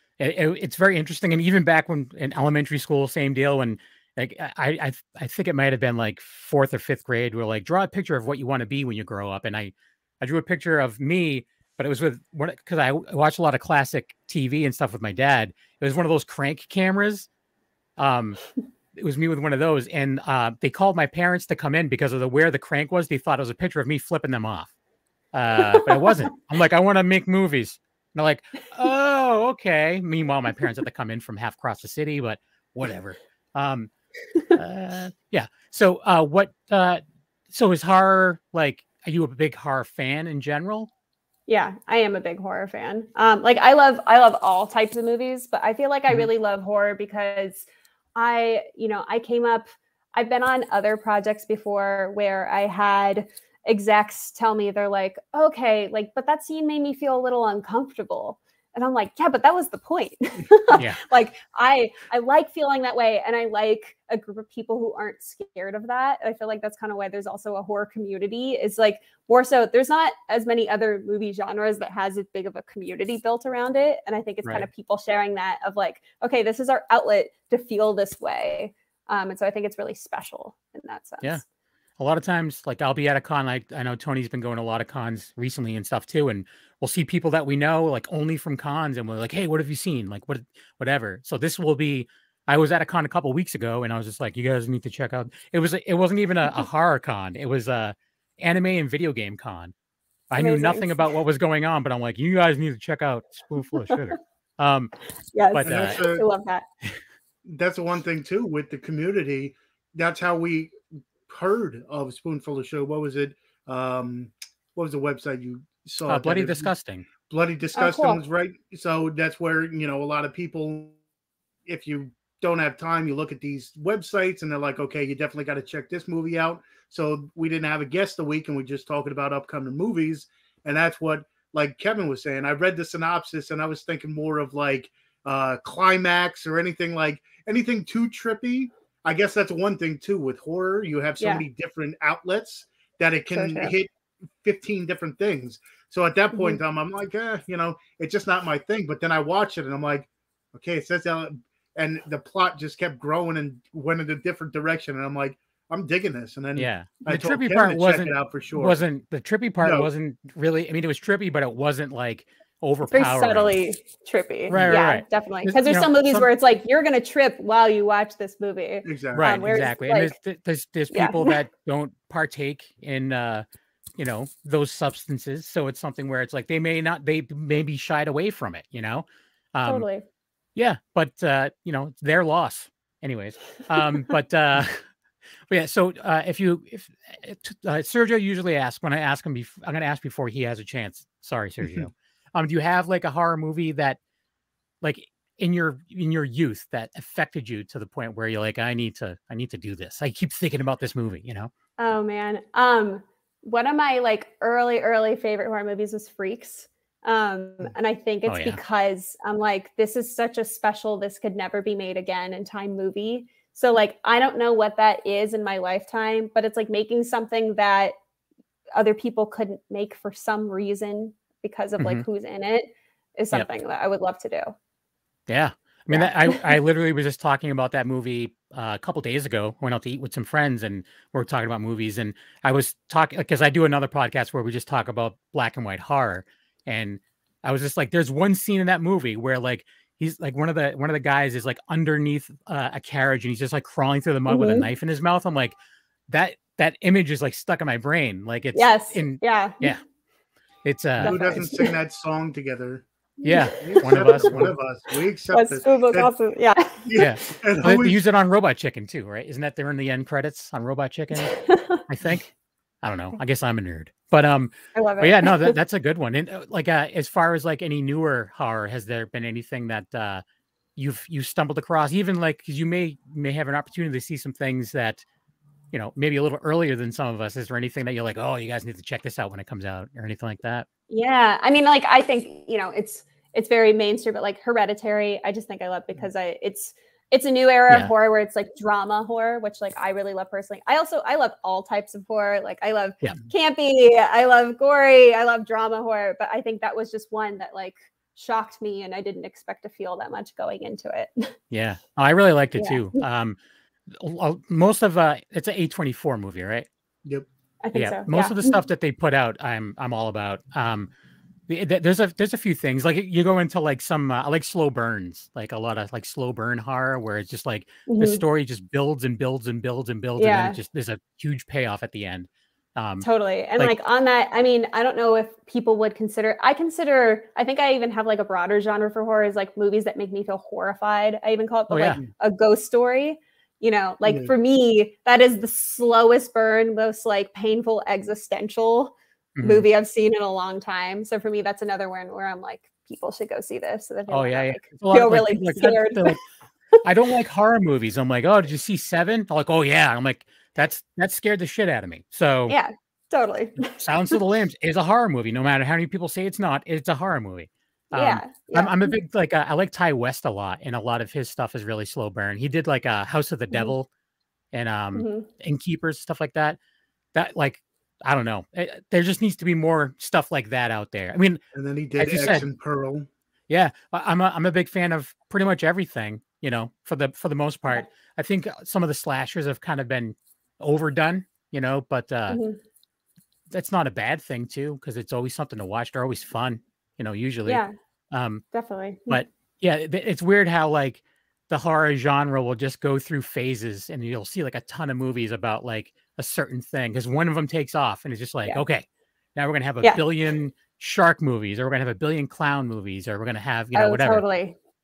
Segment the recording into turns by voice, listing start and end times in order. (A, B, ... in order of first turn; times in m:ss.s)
0:00.2-0:17.3 A
0:18.0-0:18.4 A
0:18.9-0:24.7 A
0:25.3-0:33.9 A
0:34.5-0:40.9 A
0:41.5-1:21.4 B
1:00.7-1:01.0 A
1:22.0-1:39.7 A
1:40.3-1:44.9 A
1:40.4-1:41.1 B
1:45.3-1:46.6 B
1:45.5-1:46.0 A
1:45.6-1:46.2 C
1:47.4-1:50.7 C
1:51.3-1:56.7 C
1:56.0-1:57.1 A
1:57.2-2:01.0 C
1:57.7-1:58.2 B
2:01.6-2:23.9 C
2:21.2-2:21.4 B
2:23.3-2:23.7 B
2:24.4-2:38.8 C
2:26.3-2:26.6 B
2:36.6-2:43.6 A
2:39.6-2:39.9 C
2:42.9-2:50.1 B
2:44.5-2:46.3 A
2:48.8-2:49.3 C
2:49.2-2:53.4 A
2:50.9-2:51.4 B
2:54.0-2:59.8 A
2:59.6-3:00.0 B
3:00.6-3:04.8 A
3:05.5-3:14.0 A
3:14.8-3:21.5 A
3:21.8-3:37.9 B
3:28.2-3:28.6 A
3:38.7-3:44.5 B
3:41.8-3:42.0 A
3:45.3-4:05.6 A
3:45.9-3:46.6 B
4:04.3-4:04.7 B
4:06.1-4:09.8 A
4:08.5-4:09.7 B
4:10.6-4:11.5 A
4:11.0-4:12.8 C
4:11.0-4:11.7 B
4:13.2-4:14.3 B
4:13.2-4:14.5 A
4:13.6-4:16.1 C
4:15.3-4:16.9 B
4:16.8-4:18.0 C
4:17.0-4:22.3 A
4:21.2-4:21.8 B
4:22.8-4:30.2 A
4:24.7-4:25.5 B
4:30.8-4:35.0 A
4:35.7-4:40.7 A
4:40.9-5:01.3 B
5:01.5-5:03.4 A
5:02.6-5:03.0 B
5:03.9-5:06.7 A
5:07.6-5:08.6 B
5:07.7-5:10.9 A
5:11.5-5:23.7 A
5:17.9-5:18.2 B
5:20.2-5:20.6 B
5:23.0-5:46.2 B
5:31.7-5:32.0 A
5:34.0-5:34.3 C
5:39.4-5:39.7 A
5:44.1-5:46.2 A
5:46.8-5:52.6 A
5:52.5-5:54.1 B
5:53.6-6:03.9 A
5:57.9-5:58.9 B
6:04.5-6:06.6 A
6:04.9-6:05.3 B
6:07.1-6:11.4 A
6:11.5-6:13.1 C
6:12.0-6:12.4 A
6:13.5-6:22.4 A
6:22.3-6:22.6 B
6:23.5-6:28.4 A
6:27.4-6:27.7 B
6:28.5-6:29.2 B
6:29.1-6:44.2 A
6:43.7-6:44.6 B